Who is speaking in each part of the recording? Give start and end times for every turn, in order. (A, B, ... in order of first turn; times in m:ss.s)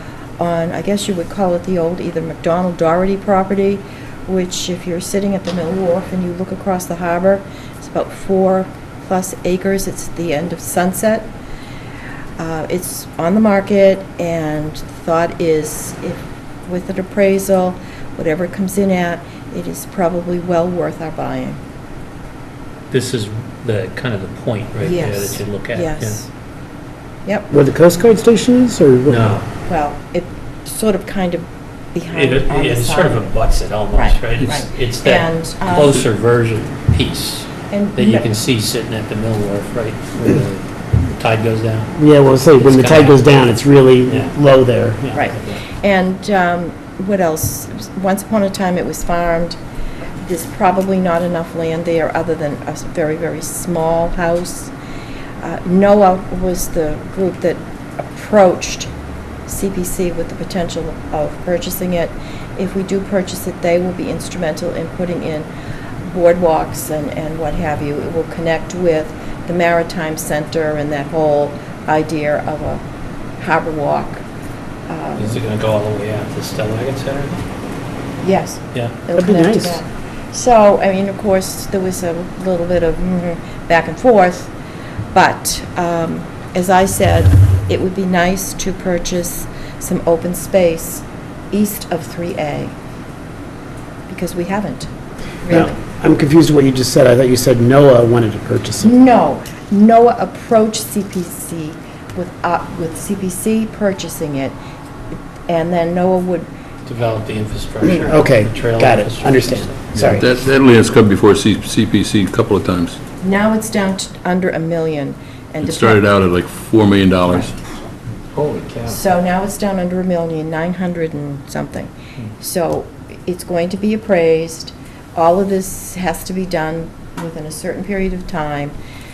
0:00.4-0:11.3 A
0:12.4-0:21.6 A
0:22.9-0:26.2 B
0:24.8-0:26.3 A
0:27.5-0:29.4 C
0:29.1-0:29.5 B
0:29.7-0:33.3 A
0:32.1-0:41.9 B
0:33.9-0:36.0 A
0:37.7-0:38.2 A
0:41.9-0:45.1 C
0:42.6-0:43.4 B
0:44.0-0:44.4 B
0:45.0-0:45.6 B
0:45.1-0:49.6 A
0:50.2-0:54.7 A
0:55.4-0:58.9 A
0:59.5-1:05.5 A
1:06.0-1:12.8 A
1:13.4-1:14.2 A
1:14.9-1:15.4 A
1:15.2-1:17.4 B
1:18.2-1:24.5 A
1:19.1-1:19.8 C
1:25.1-1:32.8 A
1:34.1-1:34.9 A
1:35.4-1:35.8 A
1:35.5-1:38.9 C
1:38.8-1:44.6 A
1:45.5-1:46.5 A
1:46.8-1:50.0 B
1:47.8-1:50.3 C
1:49.9-1:53.0 D
1:53.2-1:56.0 A
1:55.6-1:57.5 D
1:58.3-1:59.0 B
1:58.8-2:08.7 A